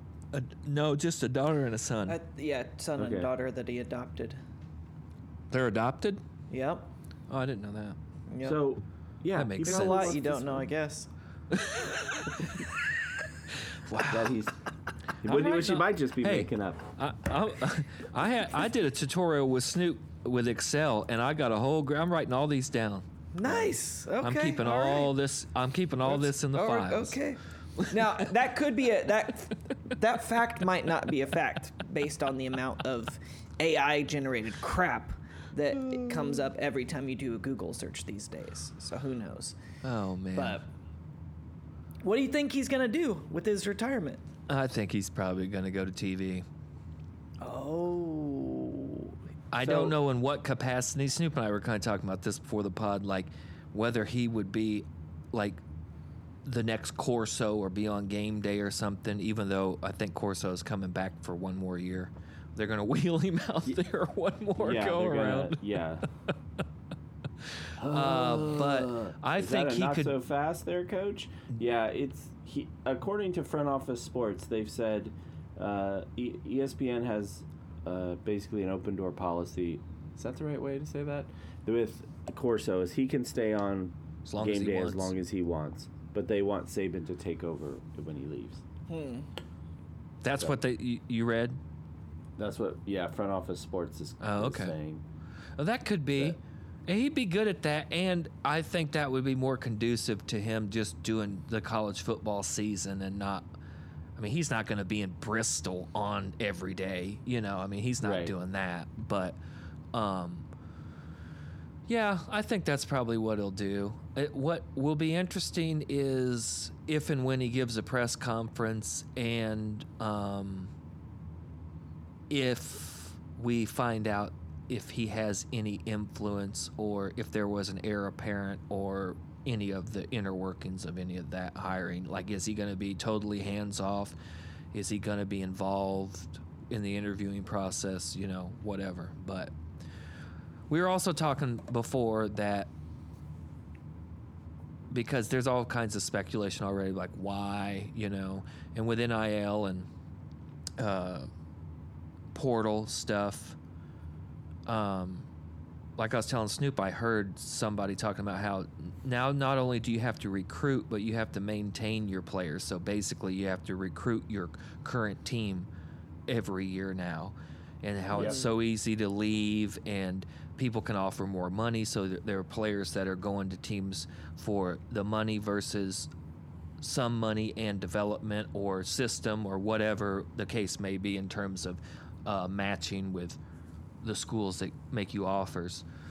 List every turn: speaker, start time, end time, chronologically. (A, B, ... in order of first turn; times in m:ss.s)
0:00.3-0:02.2 A
0:02.1-0:04.4 B
0:03.0-0:03.3 C
0:05.5-0:06.2 A
0:06.5-0:06.9 B
0:07.3-0:08.0 A
0:08.3-0:08.6 B
0:08.4-0:10.6 C
0:09.3-0:10.1 A
0:09.6-0:11.1 B
0:11.5-0:12.5 A
0:13.9-0:14.4 A
0:14.0-0:14.5 C
0:15.2-0:16.8 C
0:15.2-0:27.2 A
0:23.3-0:25.1 B
0:26.0-0:39.6 B
0:39.8-0:40.6 A
0:40.3-0:40.6 B
0:42.0-0:44.2 B
0:44.5-0:46.4 A
0:47.4-0:49.1 B
0:49.5-0:55.6 A
0:49.6-0:50.0 C
0:56.4-1:05.6 A
1:04.6-1:06.1 C
1:07.8-1:10.2 A
1:07.8-1:28.6 C
1:24.2-1:25.1 A
1:28.9-1:29.2 B
1:30.2-1:31.6 A
1:32.4-1:35.0 C
1:34.2-1:34.7 A
1:35.6-1:43.5 A
1:44.2-1:49.4 A
1:48.0-1:48.3 C
1:49.9-1:50.5 A
1:51.9-2:00.7 A
2:02.3-2:14.1 A
2:14.7-2:19.5 A
2:20.7-2:22.7 A
2:24.9-2:29.9 A
2:30.8-2:31.3 A
2:32.3-2:33.6 A
2:34.6-2:35.3 A
2:36.0-2:45.7 A
2:46.3-2:56.1 A
2:48.1-2:48.4 C
2:56.8-3:03.4 A
3:04.0-3:05.8 A